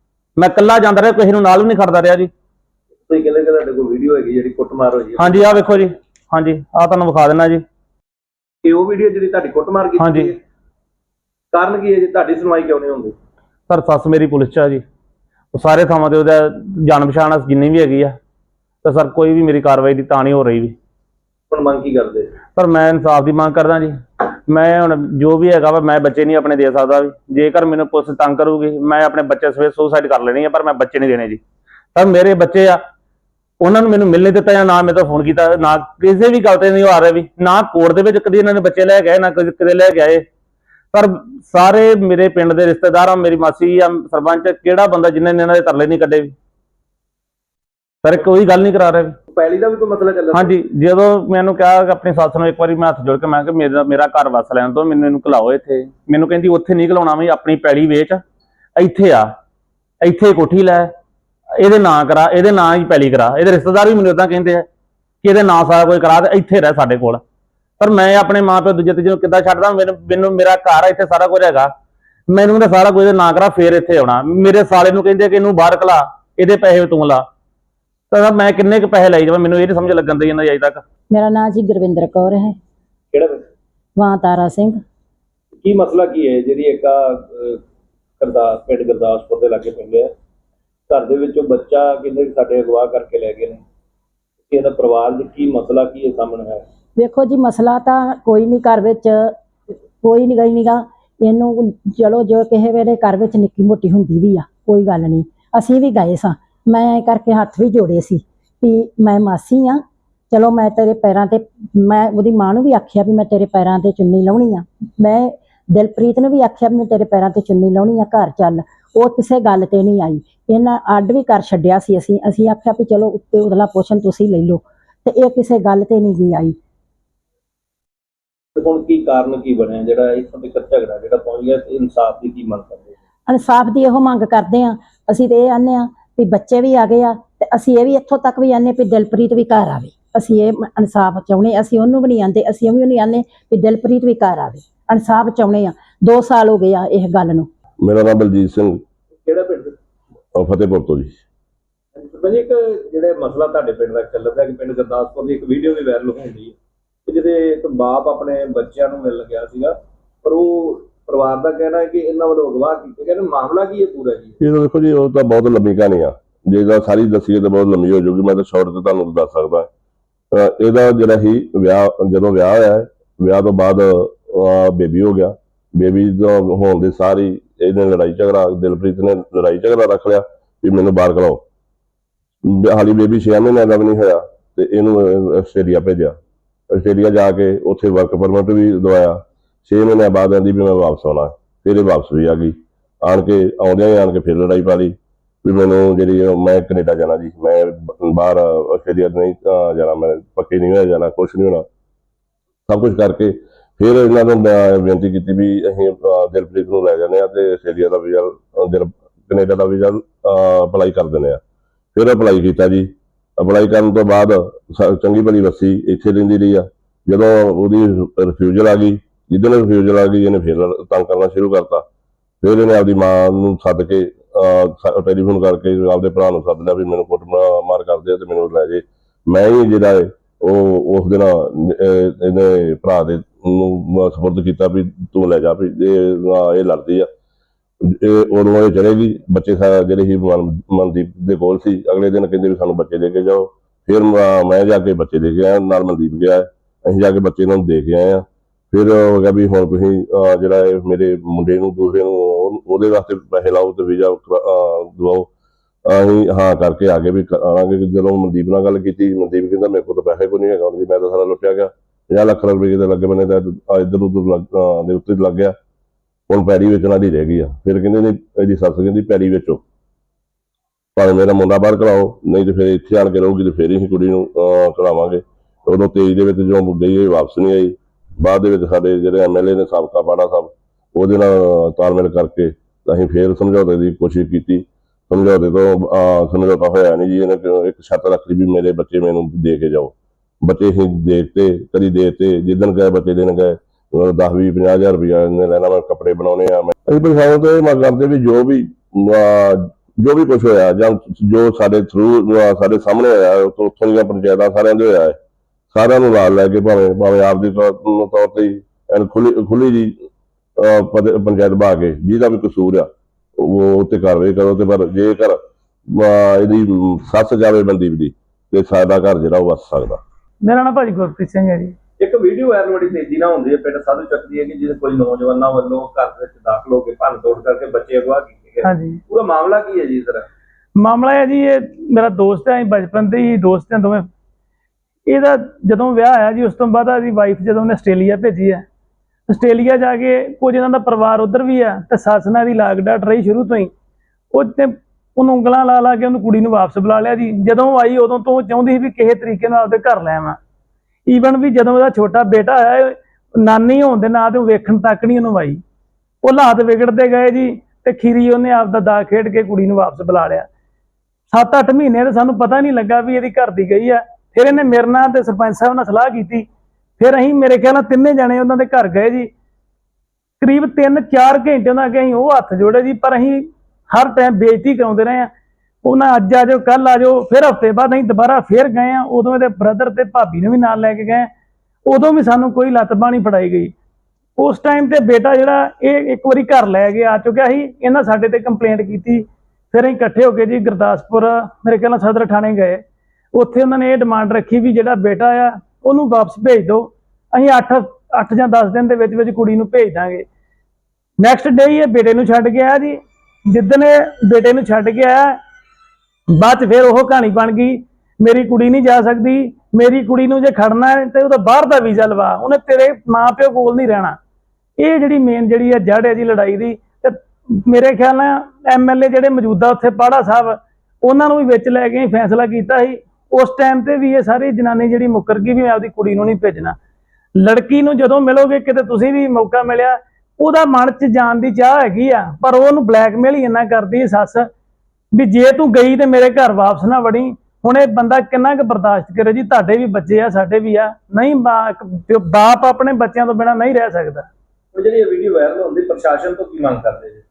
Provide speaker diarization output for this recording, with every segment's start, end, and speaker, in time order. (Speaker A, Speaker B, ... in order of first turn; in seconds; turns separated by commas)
Speaker A: 0.4-2.3, Speaker B: 3.1-5.9, Speaker A: 5.2-7.6, Speaker B: 8.6-10.4, Speaker A: 10.0-10.3, Speaker B: 11.5-13.2, Speaker A: 13.7-14.8, Speaker A: 15.5-18.2, Speaker A: 18.8-20.7, Speaker B: 21.5-22.4, Speaker A: 22.6-31.4, Speaker A: 31.9-32.8, Speaker A: 33.6-40.2, Speaker A: 40.9-46.3, Speaker A: 48.0-49.2, Speaker B: 49.3-50.6, Speaker A: 50.3-58.2, Speaker A: 58.8-59.3, Speaker A: 60.0-60.9, Speaker A: 61.6-64.7, Speaker A: 65.2-67.2, Speaker A: 67.8-71.7, Speaker A: 72.3-77.3, Speaker A: 78.1-80.8, Speaker C: 81.1-82.6, Speaker B: 83.1-83.5, Speaker C: 84.0-84.8, Speaker B: 85.6-87.6, Speaker B: 88.2-90.1, Speaker B: 90.9-93.6, Speaker B: 94.5-96.6, Speaker C: 97.0-99.3, Speaker C: 100.0-126.6, Speaker B: 128.6-132.9, Speaker C: 133.3-147.5, Speaker D: 147.8-148.8, Speaker B: 149.2-149.8, Speaker D: 150.4-151.2, Speaker B: 152.0-156.6, Speaker B: 157.1-164.4, Speaker D: 164.4-169.7, Speaker D: 170.3-181.4, Speaker D: 182.4-186.2, Speaker D: 186.7-201.7, Speaker D: 202.7-211.4, Speaker D: 211.9-221.8, Speaker D: 222.4-237.1, Speaker D: 237.8-255.3, Speaker D: 255.9-265.6, Speaker D: 266.3-269.6, Speaker D: 271.0-305.2, Speaker D: 305.7-310.0, Speaker D: 310.6-320.0, Speaker E: 320.4-321.8, Speaker B: 322.0-330.3, Speaker E: 328.6-329.0, Speaker E: 330.8-334.0, Speaker E: 335.1-338.6, Speaker E: 339.3-343.7, Speaker E: 344.3-350.4, Speaker E: 351.1-355.6, Speaker E: 356.2-360.5, Speaker E: 361.3-366.5, Speaker E: 367.0-369.3, Speaker E: 370.4-375.3, Speaker E: 375.8-381.3, Speaker E: 381.9-383.7, Speaker E: 384.4-392.8, Speaker E: 393.3-400.3, Speaker E: 401.2-405.4, Speaker E: 406.3-414.2, Speaker E: 414.8-426.8, Speaker E: 427.4-434.5, Speaker E: 435.1-444.3, Speaker B: 444.7-447.2